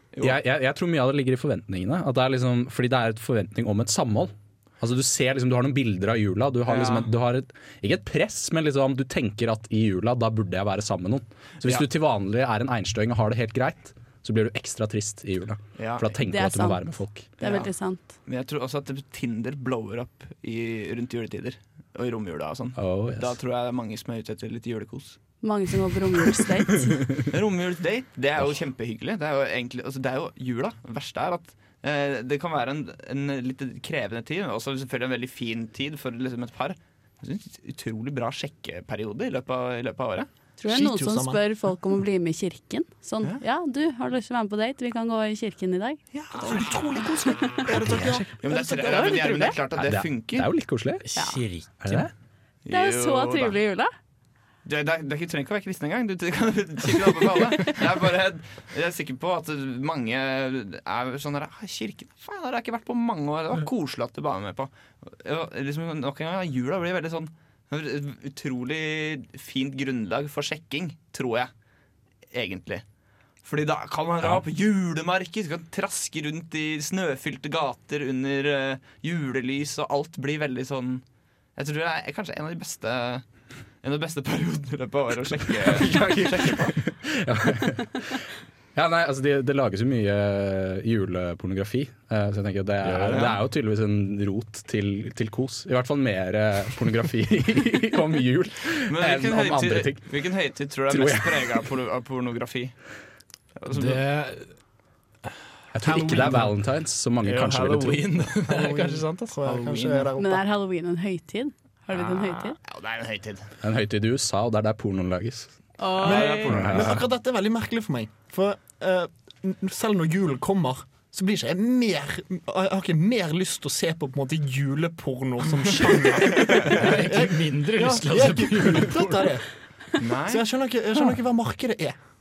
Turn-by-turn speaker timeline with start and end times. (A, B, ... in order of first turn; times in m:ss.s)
0:00.2-0:17.4 A
0:06.7-0:07.1 B
0:15.8-0:16.1 B
0:16.3-0:16.9 C
0:17.4-0:18.1 C
0:17.4-0:17.7 B
0:18.3-0:25.2 B
0:22.8-0:23.3 A
0:25.4-0:27.1 C
0:27.2-0:40.3 B
0:40.6-0:46.8 C
0:40.6-0:41.4 D
0:46.1-0:46.9 B
0:46.4-0:48.0 D
0:47.6-0:50.5 B
0:47.7-0:49.6 C
0:49.8-0:51.1 A
0:51.0-0:52.0 E
0:51.2-0:51.4 C
0:51.8-0:52.1 A
0:52.6-0:53.6 B
0:52.7-0:53.9 C
0:54.6-1:11.5 B
1:12.3-1:12.8 B
1:13.4-1:21.0 B
1:21.6-1:23.2 B
1:23.8-1:26.7 B
1:25.6-1:28.2 A
1:28.8-1:40.1 A
1:32.8-1:33.4 E
1:33.1-1:33.4 B
1:38.9-1:42.8 B
1:40.9-1:41.6 A
1:43.6-1:44.0 B
1:43.7-1:44.5 E
1:45.7-1:48.1 A
1:45.8-1:46.4 D
1:45.9-1:46.5 E
1:47.2-1:50.1 E
1:48.4-1:50.4 D
1:50.2-1:52.6 C
1:51.9-1:52.6 E
1:52.7-1:53.5 B
1:53.6-1:55.6 A
1:55.8-1:56.5 C
1:56.0-1:56.9 B
1:56.0-2:09.5 D
1:56.5-1:57.0 A
2:06.5-2:09.2 E
2:10.0-2:10.5 B
2:10.3-2:12.0 D